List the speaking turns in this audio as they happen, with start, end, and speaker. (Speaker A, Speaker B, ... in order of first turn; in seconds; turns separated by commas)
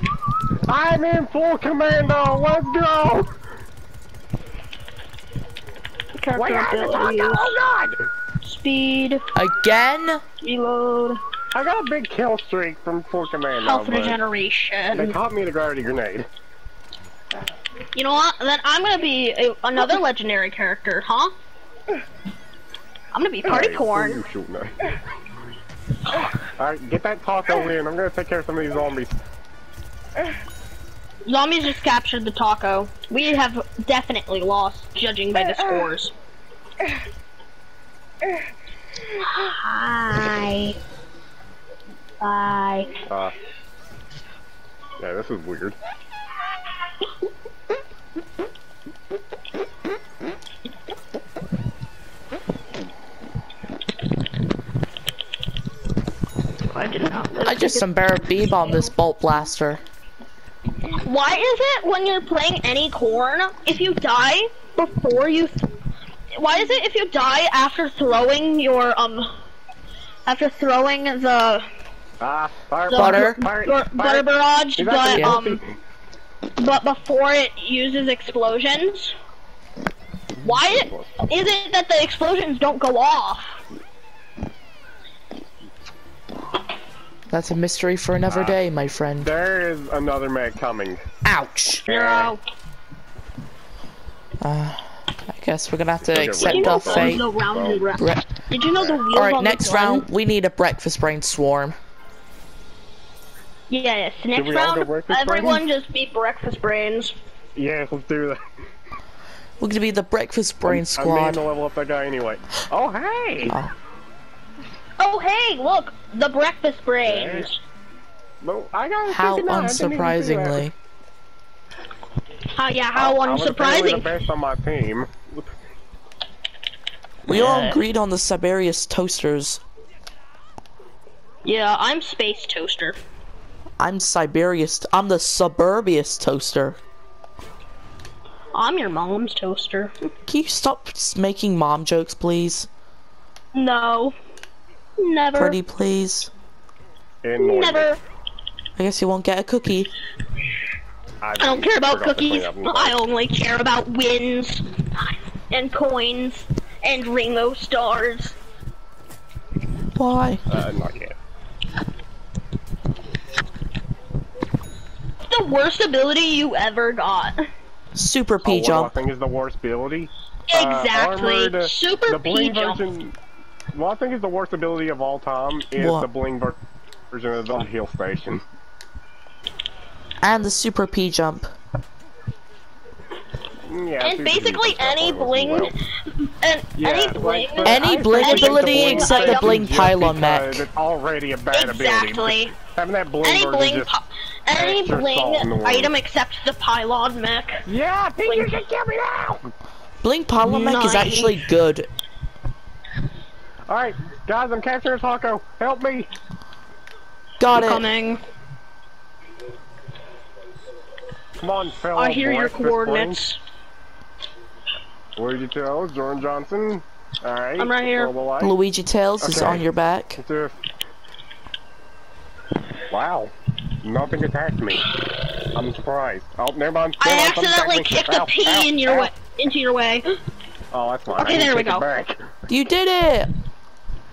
Speaker A: 0.7-3.3, Speaker B: 6.2-7.5, Speaker A: 6.4-8.0, Speaker B: 8.4-9.2, Speaker C: 9.3-10.2, Speaker B: 10.4-11.2, Speaker A: 11.5-14.2, Speaker B: 13.6-15.2, Speaker A: 14.9-16.3, Speaker B: 17.9-21.3, Speaker B: 23.1-24.2, Speaker A: 23.4-24.7, Speaker A: 26.6-29.2, Speaker B: 31.3-36.1, Speaker B: 39.3-40.8, Speaker B: 42.2-42.9, Speaker A: 43.1-43.3, Speaker A: 45.0-45.8, Speaker B: 56.7-57.9, Speaker C: 57.4-59.8, Speaker B: 61.0-65.7, Speaker B: 66.3-69.3, Speaker B: 70.3-71.7, Speaker A: 72.2-75.7, Speaker B: 72.9-75.6, Speaker C: 73.0-73.4, Speaker B: 76.6-79.2, Speaker A: 80.4-81.2, Speaker B: 80.4-83.6, Speaker C: 87.3-89.3, Speaker A: 88.3-88.6, Speaker A: 89.2-91.0, Speaker C: 91.2-91.9, Speaker A: 91.9-92.3, Speaker B: 91.9-92.4, Speaker C: 94.4-97.2, Speaker A: 96.0-97.8, Speaker B: 96.4-100.1, Speaker C: 98.0-98.3, Speaker C: 99.1-101.8, Speaker B: 103.7-107.2, Speaker A: 104.3-105.6, Speaker A: 107.6-108.4, Speaker C: 109.6-111.4, Speaker A: 110.7-113.6, Speaker B: 115.0-117.6, Speaker A: 117.0-117.5, Speaker A: 118.4-120.7, Speaker C: 119.1-120.7, Speaker B: 122.5-124.1, Speaker A: 123.0-125.5, Speaker C: 127.3-129.6, Speaker B: 127.3-127.7, Speaker A: 127.4-127.7, Speaker B: 131.4-133.0, Speaker C: 133.8-136.8, Speaker B: 138.5-140.1, Speaker C: 140.3-142.7, Speaker B: 143.5-144.2, Speaker B: 145.0-145.6, Speaker C: 145.3-146.3, Speaker A: 147.2-147.9, Speaker B: 147.4-148.0, Speaker C: 148.8-149.9, Speaker A: 151.2-152.9, Speaker B: 151.4-158.4, Speaker C: 160.0-160.4, Speaker A: 160.5-161.2, Speaker B: 165.3-167.4, Speaker C: 167.9-168.9, Speaker A: 168.4-173.2, Speaker B: 170.5-172.8, Speaker A: 173.7-176.6, Speaker C: 175.8-176.1, Speaker A: 177.1-178.4, Speaker C: 180.2-181.5, Speaker A: 183.7-185.7, Speaker B: 184.0-189.6, Speaker A: 186.8-193.9, Speaker C: 187.6-190.7, Speaker B: 191.5-192.6, Speaker B: 193.2-197.6, Speaker A: 194.5-195.9, Speaker A: 197.7-199.5, Speaker B: 198.2-198.5, Speaker C: 200.0-201.9, Speaker B: 200.4-201.4, Speaker A: 203.7-206.1, Speaker C: 207.4-207.9, Speaker B: 207.5-208.2, Speaker A: 211.4-213.2, Speaker B: 211.9-213.4, Speaker A: 215.2-218.5, Speaker B: 217.6-218.1, Speaker C: 218.4-220.2, Speaker A: 219.2-219.6, Speaker A: 220.2-220.6, Speaker A: 222.9-223.3, Speaker A: 223.8-224.9, Speaker A: 225.5-229.1, Speaker B: 227.0-230.1, Speaker A: 230.7-232.3, Speaker B: 231.1-231.8, Speaker C: 232.5-233.3